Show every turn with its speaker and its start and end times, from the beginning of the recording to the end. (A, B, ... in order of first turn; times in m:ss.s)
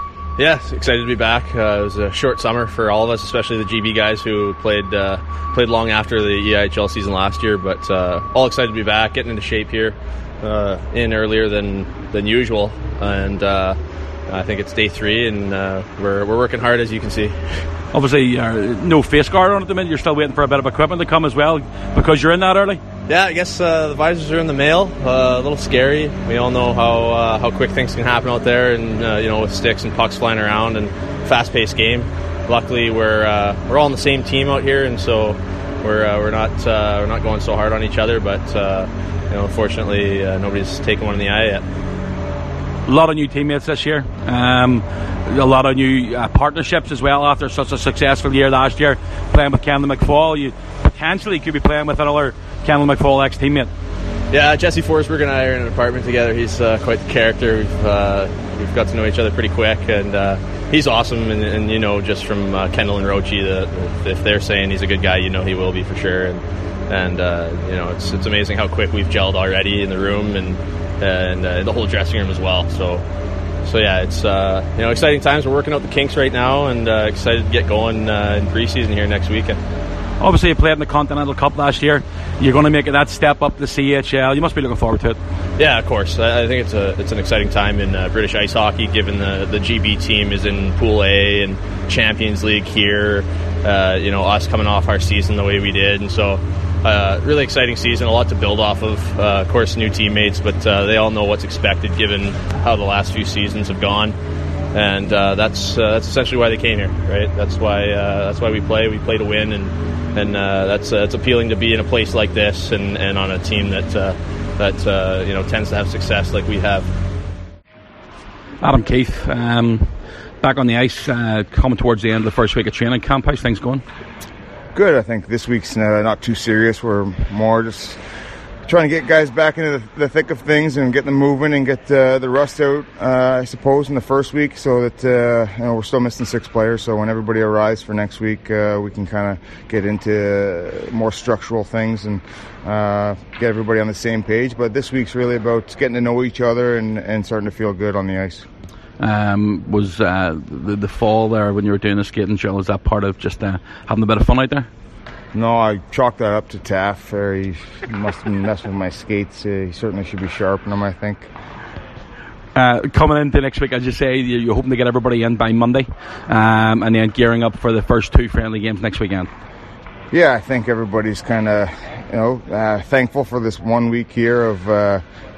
0:00.4-0:17.7 A
0:17.9-0:22.8 B
0:23.1-0:41.7 A
0:42.9-0:53.7 B
0:54.3-1:13.1 A
1:13.6-1:19.6 A
1:20.2-1:25.2 B
1:25.6-1:44.2 A
1:44.7-1:56.9 A
1:58.6-2:03.8 B
2:04.7-2:08.0 C
2:08.6-2:28.5 C
2:29.0-2:34.7 B
2:35.3-2:41.3 C
2:42.6-2:49.3 B
2:50.1-2:55.0 C